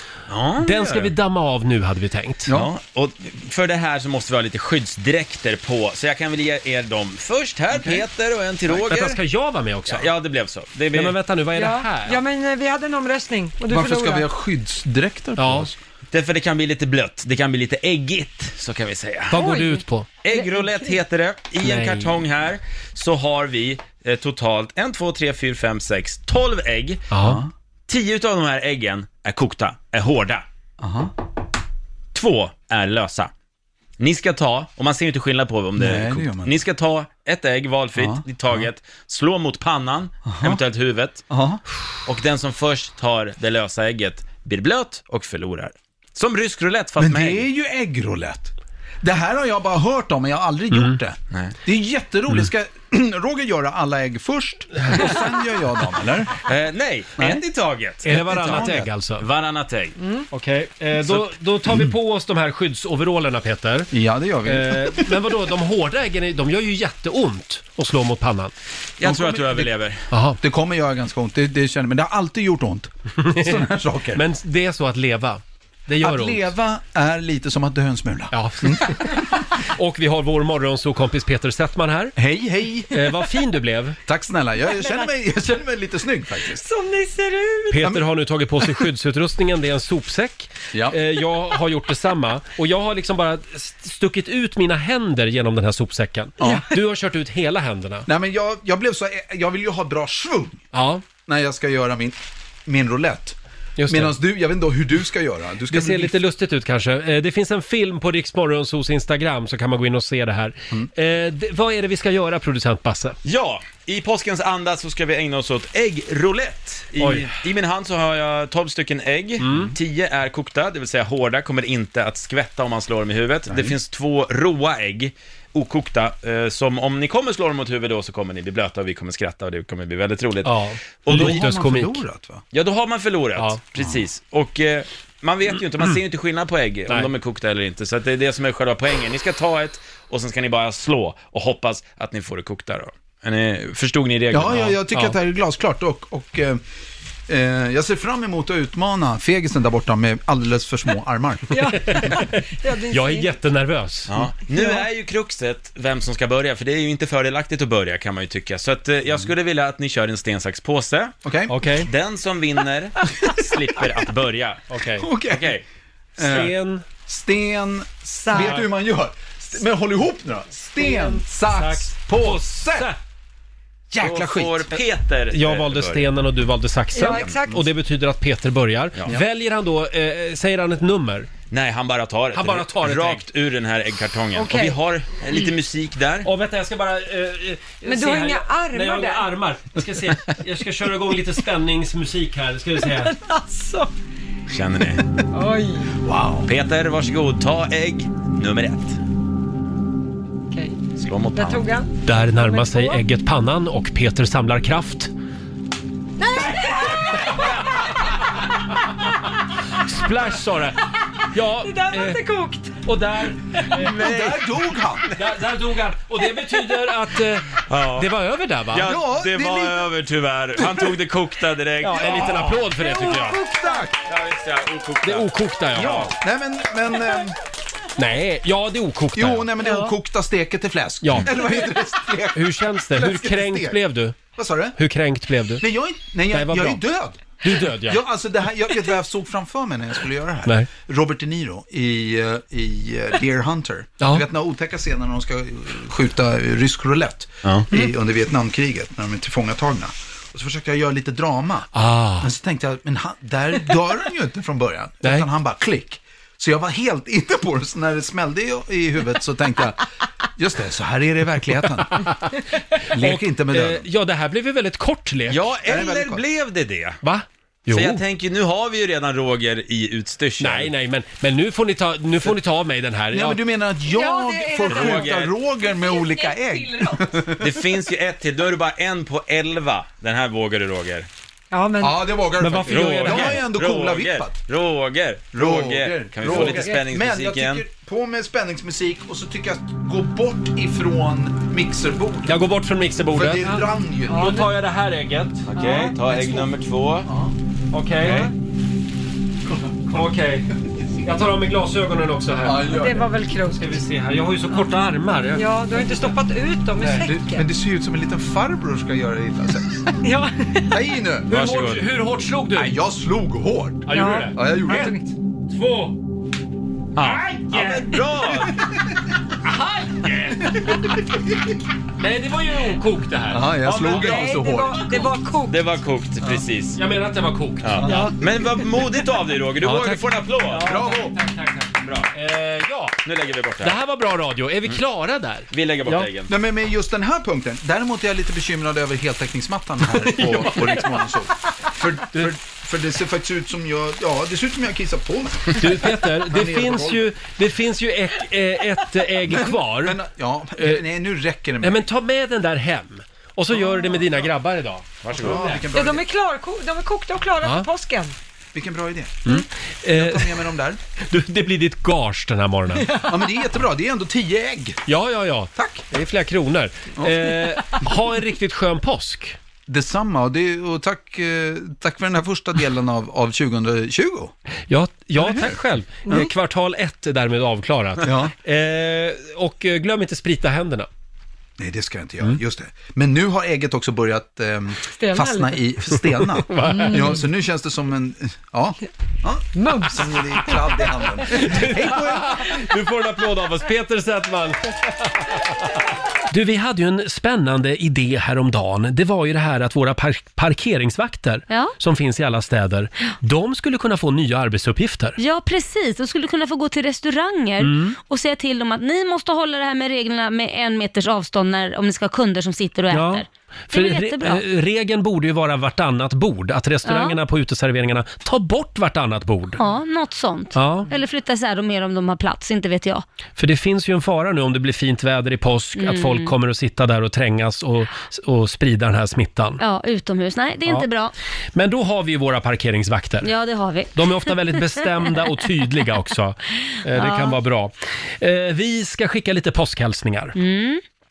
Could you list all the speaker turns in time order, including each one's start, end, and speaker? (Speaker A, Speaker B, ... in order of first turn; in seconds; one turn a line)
Speaker A: 0.3-1.1
Speaker B: 0.6-2.5
Speaker A: 2.5-9.2
Speaker B: 8.7-10.1
Speaker A: 9.9-11.2
Speaker B: 10.9-12.2
Speaker C: 11.5-14.3
Speaker D: 13.7-15.8
Speaker B: 15.4-15.7
Speaker A: 16.1-19.4
Speaker B: 19.3-20.1
Speaker C: 19.3-20.9
Speaker A: 20.2-27.1
Speaker B: 21.6-22.2
Speaker B: 27.1-27.4
Speaker D: 27.2-27.5
Speaker A: 27.9-30.4
Speaker D: 30.8-31.1
Speaker A: 32.1-33.3
Speaker A: 34.0-41.2
Speaker D: 35.8-36.6
Speaker D: 38.0-38.6
Speaker D: 40.2-40.6
Speaker D: 41.3-41.6
Speaker A: 42.0-47.5
Speaker D: 47.0-56.4
Speaker B: 50.7-51.0
Speaker A: 56.5-60.0
Speaker D: 57.2-57.4
Speaker B: 58.0-59.2
Speaker D: 58.1-58.9
Speaker B: 60.3-63.9
Speaker D: 61.6-61.9
Speaker D: 63.9-65.2
Speaker B: 64.5-68.5
Speaker A: 69.0-70.0
Speaker D: 69.0-69.7
Speaker B: 70.1-70.4
Speaker D: 70.4-74.2
Speaker B: 73.2-76.5
Speaker D: 76.0-79.2
Speaker B: 78.3-82.2
Speaker D: 82.2-83.1
Speaker B: 82.9-84.0
Speaker D: 84.0-86.6
Speaker C: 84.7-85.1
Speaker C: 86.5-87.8
Speaker B: 87.7-98.1
Speaker D: 90.7-91.0
Speaker D: 96.4-96.7
Speaker D: 98.0-100.6
Speaker B: 100.7-101.0
Speaker D: 101.2-103.3
Speaker B: 103.8-104.1
Speaker D: 103.9-106.1
Speaker B: 105.7-113.2
Speaker A: 113.2-131.5
Speaker B: 117.0-117.3
Speaker B: 119.4-119.7
Speaker D: 123.5-123.8
Speaker B: 130.4-132.0
Speaker D: 131.1-132.4
Speaker A: 132.5-144.8
Speaker D: 144.3-146.6
Speaker D: 147.3-151.5
Speaker C: 151.5-153.3
Speaker B: 151.9-154.1
Speaker A: 154.1-161.1
Speaker D: 161.2-161.7
Speaker B: 161.5-161.9
Speaker A: 161.8-164.6
Speaker B: 164.7-165.1
Speaker D: 165.0-165.6
Speaker A: 165.3-165.6
Speaker D: 166.2-166.5
Speaker B: 166.2-166.8
Speaker D: 167.1-172.9
Speaker C: 168.2-168.6
Speaker B: 168.3-168.6
Speaker B: 170.8-173.0
Speaker D: 173.9-174.8
Speaker A: 174.0-176.1
Speaker B: 175.3-181.3
Speaker C: 176.9-177.6
Speaker A: 177.1-177.4
Speaker A: 181.5-186.3
Speaker B: 182.3-183.3
Speaker C: 184.3-184.8
Speaker B: 186.2-193.1
Speaker C: 187.8-189.3
Speaker C: 192.8-193.9
Speaker A: 194.5-195.0
Speaker C: 195.3-195.9
Speaker D: 196.0-196.5
Speaker A: 196.4-199.0
Speaker C: 200.5-203.0
Speaker A: 200.9-201.7
Speaker B: 202.0-205.1
Speaker C: 206.2-207.8
Speaker B: 209.8-210.8
Speaker B: 211.3-212.2
Speaker C: 211.6-212.8
Speaker B: 212.8-214.1
Speaker D: 213.8-215.1
Speaker A: 213.9-214.4
Speaker B: 215.1-218.9
Speaker A: 217.7-218.1
Speaker A: 218.7-222.5
Speaker D: 218.8-219.9
Speaker D: 220.6-221.0
Speaker B: 221.8-223.4
Speaker D: 222.0-223.9
Speaker C: 222.8-223.9
Speaker A: 224.1-225.3
Speaker B: 225.0-226.1
Speaker D: 225.7-227.4
Speaker B: 228.0-229.5
Speaker D: 229.1-233.8
Speaker C: 229.6-229.9
Speaker B: 231.0-231.3
Speaker B: 232.3-234.2
Speaker D: 234.3-234.8
Speaker B: 234.8-235.6
Speaker D: 235.6-259.8
Speaker B: 236.3-236.8
Speaker B: 237.4-238.0
Speaker B: 244.0-244.2
Speaker B: 251.7-252.3
Speaker D: 260.4-262.1
Speaker B: 262.8-265.5
Speaker D: 262.9-263.8
Speaker A: 265.3-267.0
Speaker D: 265.6-266.2
Speaker B: 267.0-268.0
Speaker A: 267.7-270.7
Speaker B: 270.4-273.4
Speaker D: 273.1-277.5
Speaker C: 273.9-275.1
Speaker A: 274.7-275.3
Speaker C: 275.8-277.0
Speaker A: 277.4-281.1
Speaker C: 281.5-282.5
Speaker D: 281.8-284.4
Speaker B: 282.4-283.4
Speaker A: 282.7-287.6
Speaker D: 285.3-292.4
Speaker C: 286.4-286.8
Speaker B: 292.2-295.4
Speaker D: 293.1-294.3
Speaker C: 294.1-294.5
Speaker A: 295.5-297.1
Speaker C: 295.6-296.4
Speaker D: 297.1-297.3
Speaker B: 297.7-298.3
Speaker A: 298.0-298.3
Speaker B: 299.9-300.5
Speaker B: 301.0-302.8
Speaker D: 302.4-303.1
Speaker C: 302.7-303.8
Speaker B: 303.5-306.1
Speaker C: 305.3-307.5
Speaker B: 306.8-307.1
Speaker D: 307.0-309.9
Speaker C: 310.0-310.7
Speaker D: 310.7-311.4
Speaker B: 311.3-312.8
Speaker A: 311.3-311.8
Speaker D: 312.5-314.9
Speaker B: 313.9-315.0
Speaker C: 313.9-315.1
Speaker B: 315.5-315.9
Speaker A: 316.9-318.6
Speaker B: 317.0-318.0
Speaker B: 319.4-320.6
Speaker B: 322.0-323.5
Speaker D: 323.3-324.9
Speaker A: 323.6-324.4
Speaker C: 323.9-325.6
Speaker A: 325.5-326.8
Speaker B: 326.8-328.1
Speaker A: 327.6-330.7
Speaker D: 327.8-328.1
Speaker B: 329.6-333.0
Speaker D: 330.6-331.1
Speaker A: 331.8-332.1
Speaker A: 333.0-333.8
Speaker B: 333.6-336.1
Speaker A: 335.5-336.3
Speaker D: 336.3-347.1
Speaker B: 339.9-341.0
Speaker B: 345.6-350.0
Speaker D: 349.3-351.8
Speaker B: 350.6-350.8
Speaker B: 351.6-355.6
Speaker D: 353.6-354.1
Speaker A: 355.0-355.4
Speaker D: 355.1-356.1
Speaker C: 355.7-358.1
Speaker D: 358.5-360.8
Speaker B: 359.2-360.4
Speaker B: 361.0-362.9
Speaker C: 362.8-363.4
Speaker D: 363.0-364.8
Speaker B: 364.9-369.4
Speaker D: 365.6-365.8
Speaker D: 367.0-367.8
Speaker D: 369.7-374.3
Speaker B: 374.7-380.9
Speaker D: 375.2-375.6
Speaker D: 378.0-378.3
Speaker D: 381.6-392.6
Speaker C: 384.9-385.6
Speaker B: 385.9-387.2
Speaker C: 386.6-387.2
Speaker C: 389.6-390.1
Speaker B: 391.3-395.7
Speaker B: 396.3-405.2
Speaker E: 405.2-414.4
Speaker B: 407.6-408.0
Speaker B: 412.9-419.6
Speaker E: 416.8-417.2
Speaker E: 419.6-423.0
Speaker B: 420.5-420.9
Speaker B: 423.4-429.6
Speaker E: 425.8-426.3
Speaker E: 429.6-431.1
Speaker B: 431.5-433.3
Speaker E: 433.2-434.8
Speaker B: 433.9-440.4
Speaker E: 436.9-437.4
Speaker E: 440.4-440.8